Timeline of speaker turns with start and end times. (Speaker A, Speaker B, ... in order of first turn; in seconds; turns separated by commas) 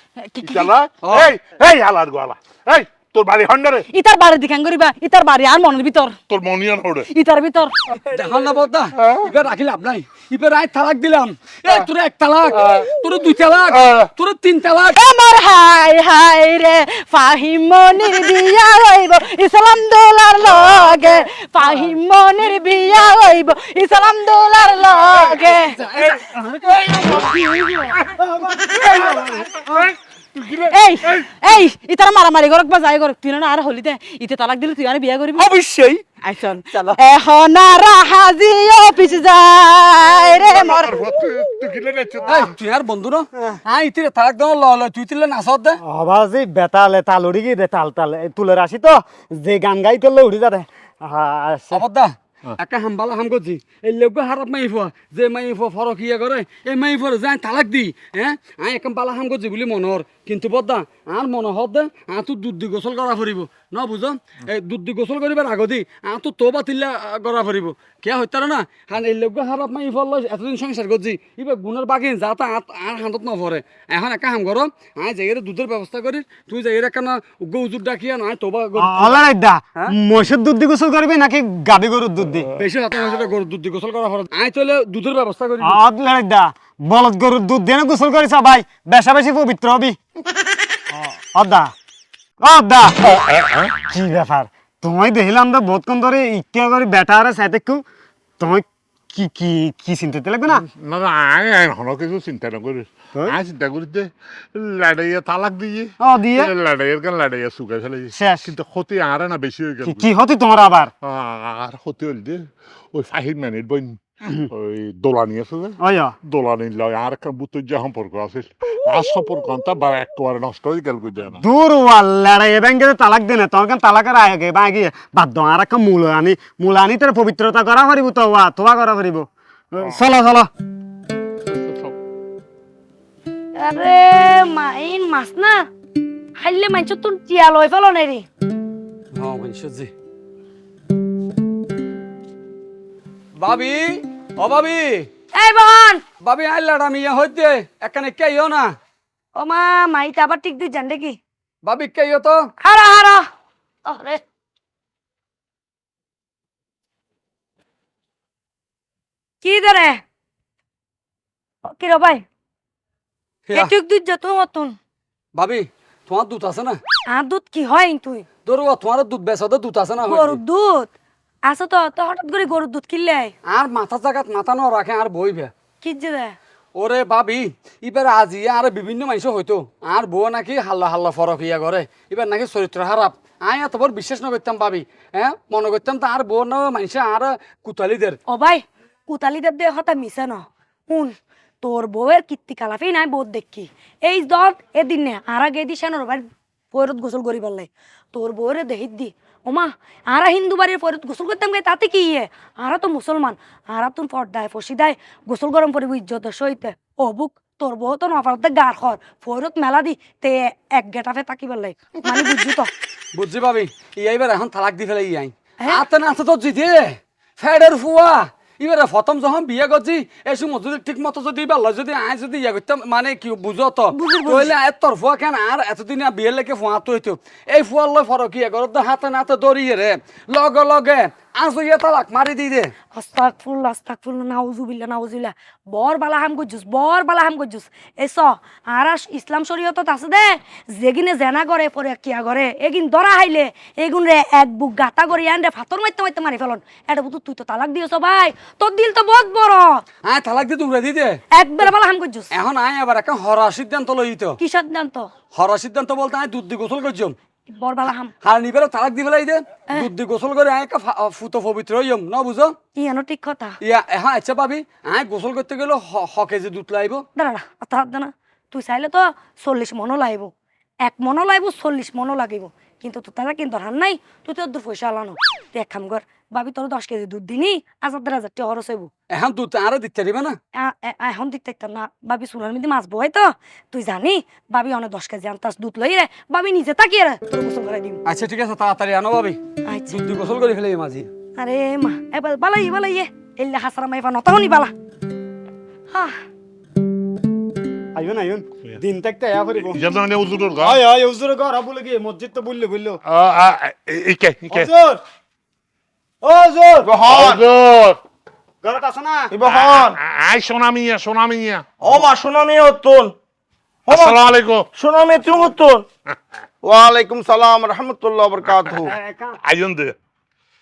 Speaker A: 0.2-0.7, Speaker B: 0.4-3.9, Speaker C: 1.0-1.3, Speaker A: 3.9-6.2, Speaker B: 6.3-7.1, Speaker A: 7.1-8.0, Speaker C: 8.1-15.0, Speaker B: 9.0-9.3, Speaker B: 12.5-12.9, Speaker B: 13.7-14.1, Speaker A: 15.0-25.9, Speaker B: 25.9-28.1, Speaker D: 26.3-29.8, Speaker B: 28.7-31.3, Speaker A: 30.7-35.5, Speaker A: 36.1-41.0, Speaker B: 40.5-42.5, Speaker C: 42.2-45.8, Speaker D: 45.8-51.8, Speaker C: 51.7-79.2, Speaker D: 78.8-82.5, Speaker C: 82.6-85.8, Speaker D: 85.6-90.0, Speaker D: 90.9-91.7, Speaker D: 92.4-93.0, Speaker B: 93.0-93.8, Speaker D: 93.9-97.8, Speaker D: 98.4-100.7, Speaker B: 100.5-110.1, Speaker D: 106.0-106.5, Speaker D: 108.1-108.5, Speaker D: 109.8-110.9, Speaker B: 111.0-121.4, Speaker D: 115.8-116.2, Speaker D: 121.4-130.5, Speaker B: 131.5-131.9, Speaker E: 133.6-135.7, Speaker E: 136.4-138.3, Speaker C: 139.2-139.9, Speaker C: 143.4-145.1, Speaker E: 145.3-146.0, Speaker C: 146.2-148.7, Speaker E: 149.4-151.2, Speaker C: 151.7-152.5, Speaker E: 152.6-153.2, Speaker E: 153.9-154.2, Speaker E: 159.4-160.0, Speaker E: 161.7-162.2, Speaker E: 163.5-164.8, Speaker C: 165.4-166.8, Speaker E: 167.1-168.3, Speaker C: 168.5-170.4, Speaker E: 170.1-170.9, Speaker E: 171.5-173.3, Speaker C: 173.5-175.5, Speaker E: 175.8-176.4, Speaker C: 176.8-188.2, Speaker E: 188.3-212.7, Speaker C: 213.2-232.7, Speaker E: 223.9-224.5, Speaker E: 233.0-249.8, Speaker C: 250.1-251.7, Speaker E: 251.3-252.3, Speaker C: 252.3-254.4, Speaker E: 254.4-255.1, Speaker C: 255.3-257.2, Speaker E: 257.5-258.1, Speaker C: 258.2-262.6, Speaker E: 262.8-263.6, Speaker C: 263.6-267.1, Speaker E: 267.2-270.3, Speaker E: 270.9-278.9, Speaker C: 279.1-280.4, Speaker E: 280.6-288.0, Speaker C: 288.1-291.1, Speaker E: 289.7-290.0, Speaker E: 291.4-294.7, Speaker E: 295.9-296.2, Speaker D: 298.0-299.8, Speaker B: 299.6-300.8, Speaker D: 300.6-303.0, Speaker B: 303.1-304.7, Speaker D: 304.5-305.0, Speaker D: 306.2-306.9, Speaker F: 306.8-307.4, Speaker B: 307.1-308.0, Speaker D: 308.6-309.3, Speaker F: 309.3-310.0, Speaker B: 309.4-311.6, Speaker F: 311.8-313.1, Speaker F: 313.9-314.2, Speaker B: 313.9-314.7, Speaker F: 314.8-315.9, Speaker F: 316.6-318.9, Speaker B: 318.4-318.9, Speaker D: 318.8-319.4, Speaker B: 319.4-319.9